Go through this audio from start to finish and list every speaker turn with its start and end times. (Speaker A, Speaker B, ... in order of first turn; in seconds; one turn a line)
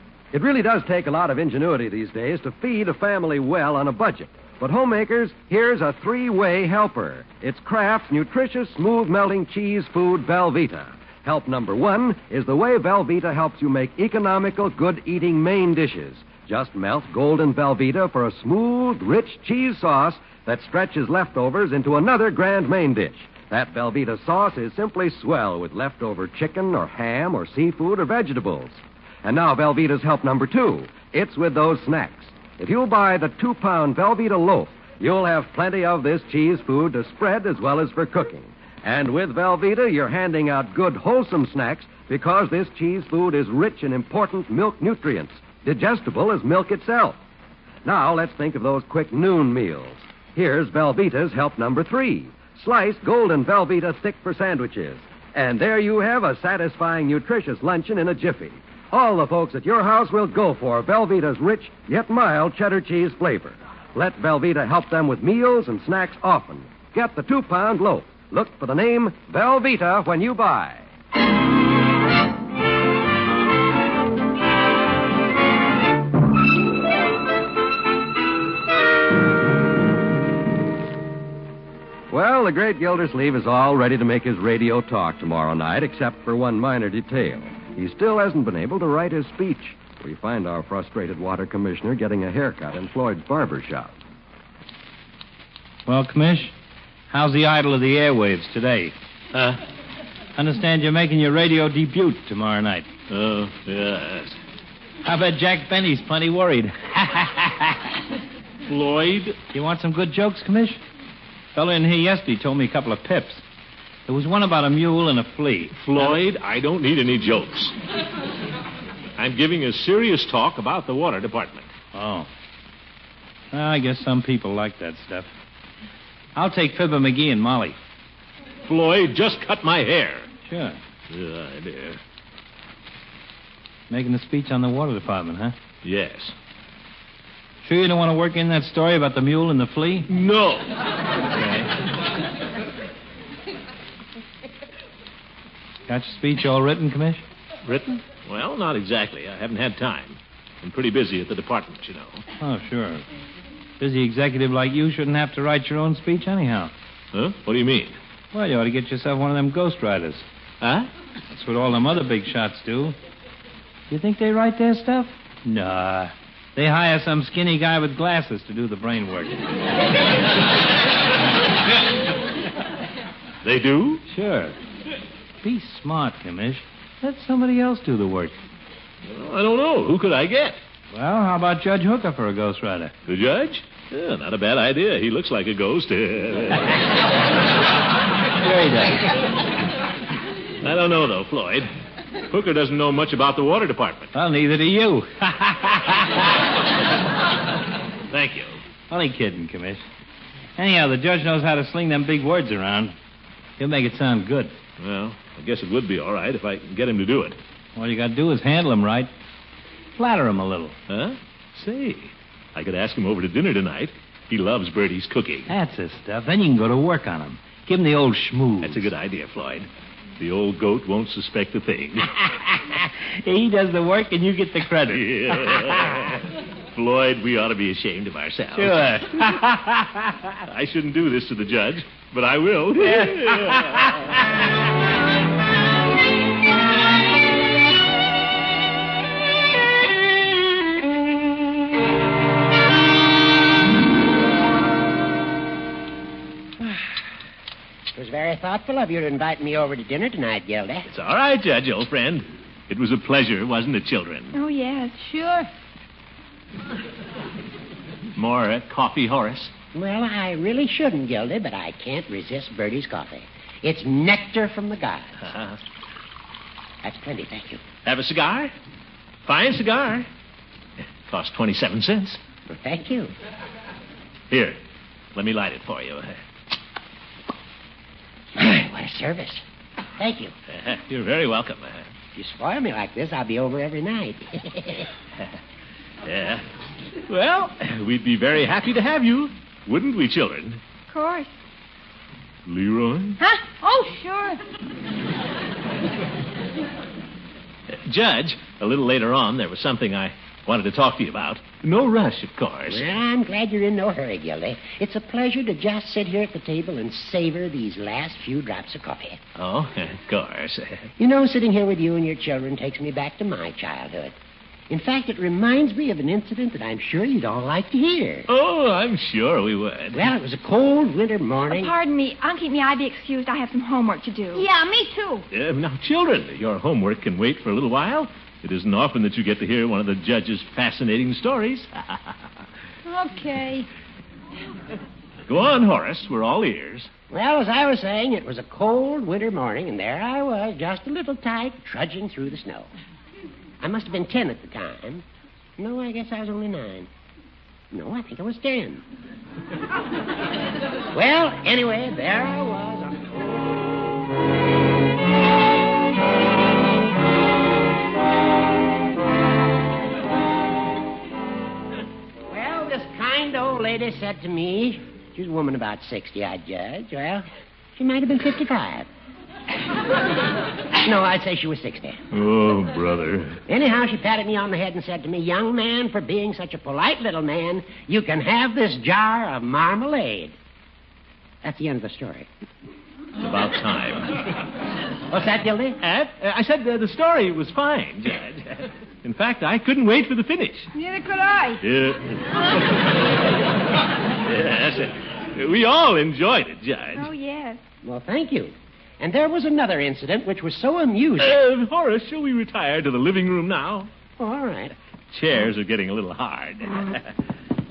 Speaker A: 0.3-47.2
Speaker A: 47.8-70.9
Speaker A: 82.1-94.0
Speaker B: 95.9-96.5
Speaker B: 97.1-99.0
Speaker C: 99.3-99.6
Speaker B: 100.3-102.9
Speaker C: 103.1-104.4
Speaker B: 105.0-107.8
Speaker C: 108.7-109.4
Speaker B: 109.5-110.8
Speaker B: 111.5-113.4
Speaker B: 114.1-116.2
Speaker C: 115.8-117.8
Speaker C: 119.2-121.7
Speaker B: 121.9-122.3
Speaker B: 123.5-125.3
Speaker B: 126.3-127.8
Speaker C: 128.7-130.3
Speaker B: 130.5-130.8
Speaker C: 131.1-132.0
Speaker B: 133.9-135.6
Speaker C: 135.8-136.3
Speaker B: 137.6-140.1
Speaker C: 140.1-140.8
Speaker C: 141.3-141.7
Speaker B: 145.9-147.2
Speaker C: 147.7-152.2
Speaker B: 152.4-153.0
Speaker B: 153.8-156.7
Speaker C: 157.1-158.0
Speaker B: 158.3-160.2
Speaker C: 160.6-160.9
Speaker B: 161.3-163.0
Speaker B: 163.9-169.4
Speaker C: 173.4-174.0
Speaker B: 174.1-174.6
Speaker B: 175.4-178.4
Speaker C: 179.1-180.6
Speaker B: 180.9-182.9
Speaker C: 183.1-186.8
Speaker B: 188.4-189.0
Speaker C: 190.6-191.7
Speaker C: 192.3-194.1
Speaker B: 194.2-196.0
Speaker C: 198.1-198.6
Speaker B: 198.9-199.8
Speaker B: 200.6-203.0
Speaker B: 203.6-204.6
Speaker C: 204.8-207.4
Speaker B: 207.8-209.1
Speaker B: 210.0-210.8
Speaker C: 210.9-215.5
Speaker B: 215.5-218.9
Speaker C: 218.6-219.7
Speaker C: 220.2-222.2
Speaker B: 222.8-225.8
Speaker C: 224.9-226.2
Speaker C: 226.7-229.1
Speaker B: 228.6-230.3
Speaker C: 230.4-234.1
Speaker B: 232.8-233.8
Speaker D: 247.9-250.9
Speaker C: 250.9-254.3
Speaker E: 254.3-255.2
Speaker C: 258.2-259.5
Speaker D: 259.7-265.3
Speaker C: 265.3-265.6
Speaker D: 266.8-267.6
Speaker C: 267.8-268.5
Speaker C: 269.2-270.1
Speaker C: 271.1-272.2
Speaker D: 272.5-273.1
Speaker C: 274.3-274.6
Speaker C: 275.1-276.1
Speaker D: 278.4-279.4
Speaker D: 280.0-280.3
Speaker C: 280.5-281.9
Speaker D: 282.1-284.9
Speaker C: 286.0-286.4
Speaker C: 287.1-290.6
Speaker E: 290.9-291.3
Speaker C: 292.5-293.2
Speaker F: 293.2-294.4
Speaker C: 297.9-302.9
Speaker D: 302.7-309.2
Speaker C: 309.4-310.9
Speaker D: 311.0-314.1
Speaker D: 314.7-318.3
Speaker C: 318.3-320.1
Speaker D: 319.9-321.7
Speaker E: 321.5-324.4
Speaker F: 324.4-325.2
Speaker C: 325.3-332.2
Speaker F: 332.9-333.7
Speaker C: 335.3-336.9
Speaker D: 337.1-342.7
Speaker D: 343.6-345.1
Speaker D: 345.6-346.9
Speaker D: 347.7-348.8
Speaker D: 350.9-353.6
Speaker D: 362.3-368.9
Speaker D: 370.8-372.0
Speaker C: 372.1-373.4
Speaker D: 373.5-380.4
Speaker D: 381.4-382.3
Speaker C: 383.2-384.2
Speaker D: 385.1-385.8
Speaker C: 385.8-390.7
Speaker F: 390.7-391.6
Speaker C: 391.6-392.6
Speaker C: 394.2-397.1
Speaker E: 396.9-397.6
Speaker D: 397.8-401.4
Speaker C: 401.2-403.9
Speaker D: 404.2-404.8
Speaker C: 405.1-407.1